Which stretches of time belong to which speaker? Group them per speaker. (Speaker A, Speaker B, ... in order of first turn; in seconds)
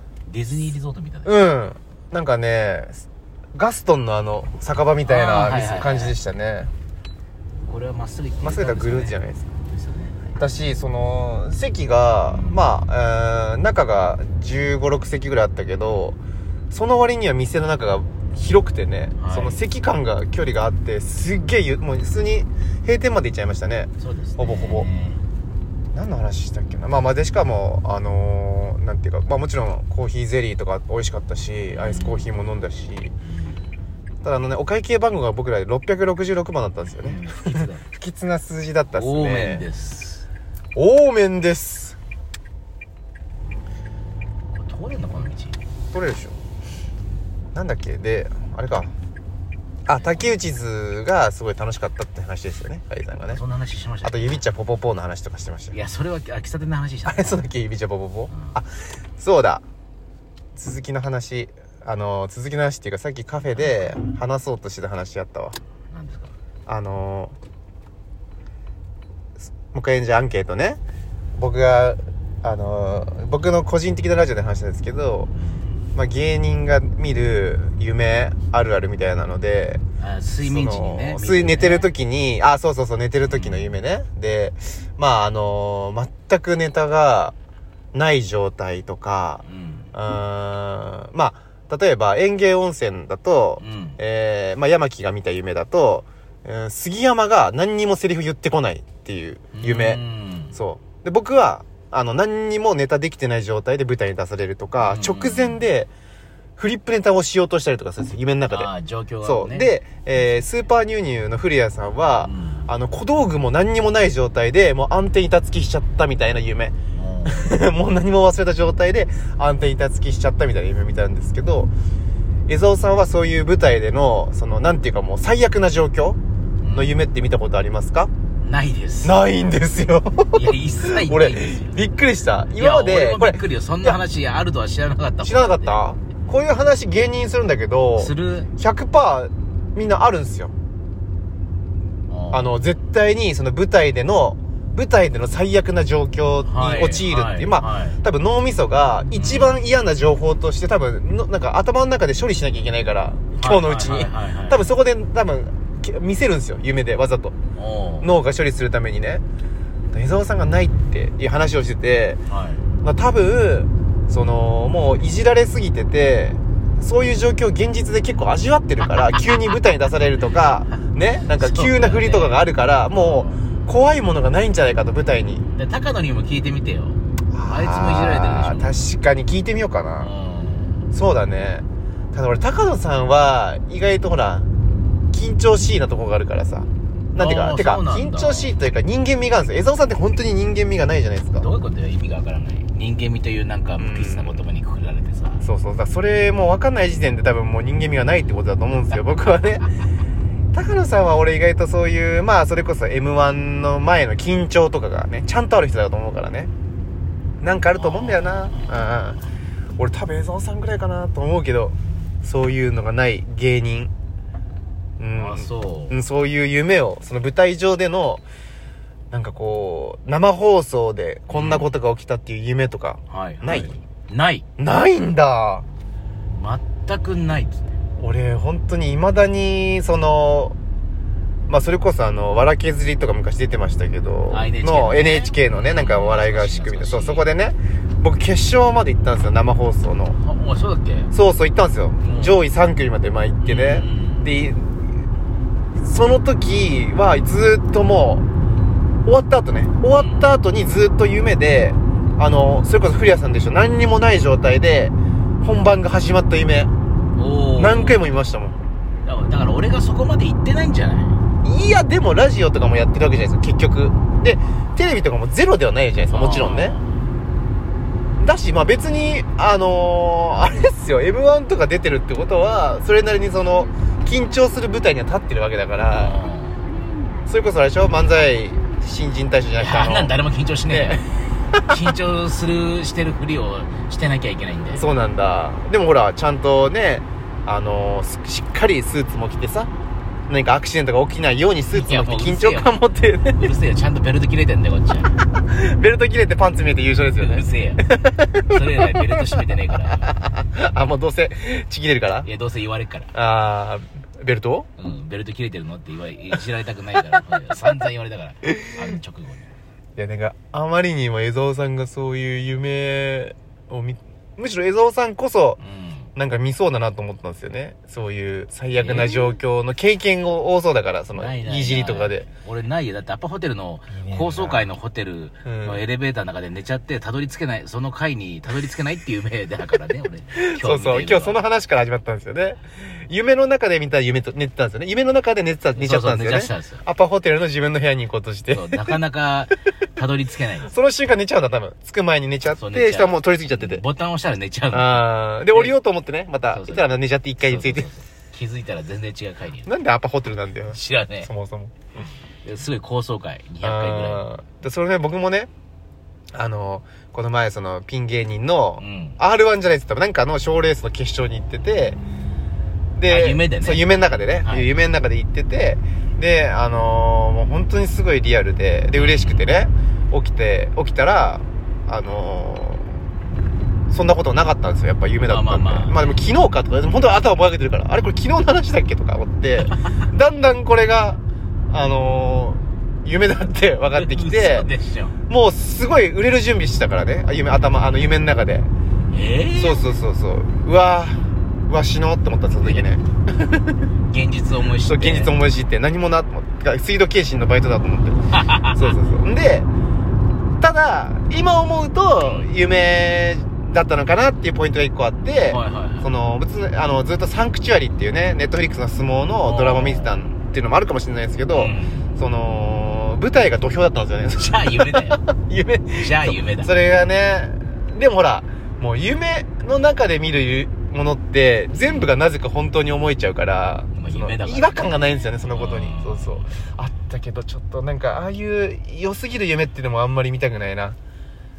Speaker A: 0.3-1.3, 5.0-6.2, 7.6-10.4, 12.3-12.7, 19.2-19.6, 24.0-25.2, 31.7-32.3, 33.2-33.6, 37.0-37.8, 38.9-40.3, 44.5-45.6, 50.0-50.3, 53.3-54.4, 55.7-57.4, 58.3-58.6, 65.9-66.3, 75.4-75.7, 80.0-81.9, 83.2-83.8, 89.4-89.9, 93.6-94.0, 99.5-100.6, 104.8-105.7, 108.5-109.7, 112.2-112.7, 116.9-117.5, 126.6-127.0, 128.4-129.1, 130.3-131.8, 132.6-135.8, 138.0-138.5, 142.1-142.6, 146.4-148.0, 149.1-149.6, 153.3-154.7, 157.6-158.1, 162.3-162.7, 171.4-173.7, 175.5-178.7, 180.0-180.8, 187.2-188.6, 191.4-195.4, 207.7-208.8, 215.1-216.0, 221.3-221.7, 223.1-224.5, 226.3-227.8, 234.3-237.3, 240.2-241.1, 242.0-242.4, 243.4-244.3, 249.9-250.3, 257.1-258.1, 259.1-261.2, 266.1-266.9, 275.9-276.6, 279.6-284.9, 291.7-292.8, 293.4-295.2, 297.2-297.9, 298.4-300.1, 302.2-303.1, 304.8-309.5, 315.6-316.1, 318.8-319.3, 321.1-331.4, 335.8-336.8, 338.5-340.7, 342.5-345.8, 346.5-349.7, 350.7-351.3, 352.4-354.2, 358.8-359.2, 363.1-364.7, 368.9-369.5, 375.3-376.2, 379.7-379.9, 383.9-385.2, 389.1-389.9, 392.6-393.0, 394.1-395.3, 398.3-399.0, 402.2-402.5, 405.5-406.1, 409.4-410.3, 411.5-412.1, 414.4-415.2, 415.9-416.7, 421.8-422.1, 423.9-426.6
Speaker B: 1.2-3.0, 3.5-6.7, 8.4-9.5, 10.4-16.2, 16.7-24.9, 25.9-33.1, 34.2-39.7, 40.8-42.0, 45.9-46.4, 47.5-48.9, 49.9-53.4, 54.0-55.8, 57.1-59.6, 60.6-65.6, 66.7-67.3, 69.7-70.8, 71.3-75.3, 75.9-79.8, 80.4-87.3, 87.9-100.0, 100.5-105.9, 106.6-108.7, 109.2-121.7, 122.5-126.2, 126.7-128.1, 129.0-134.0, 135.2-140.5, 142.3-157.4, 158.0-159.2, 159.9-162.2, 162.8-175.4, 177.3-180.1, 180.9-184.5, 185.1-191.5, 193.8-194.4, 195.4-199.7, 200.5-206.5, 207.4-209.2, 209.8-213.9, 215.0-218.2, 219.1-223.8, 224.6-225.7, 228.0-230.6, 231.5-240.2, 241.1-244.8, 245.8-248.2, 249.1-256.7, 257.6-258.6, 261.4-266.8, 268.2-276.2, 277.3-280.1, 280.7-281.0, 284.7-289.7, 290.3-293.5, 295.4-302.3, 303.1-304.7, 308.5-308.8, 310.0-315.6, 316.2-322.3, 324.0-324.6, 325.4-325.8, 330.4-339.0, 340.6-343.8, 344.7-347.9, 349.6-351.8, 353.6-355.5, 356.3-362.0, 363.0-373.0, 373.9-384.7, 385.3-388.7, 389.5-393.7, 394.9-399.7, 400.6-431.0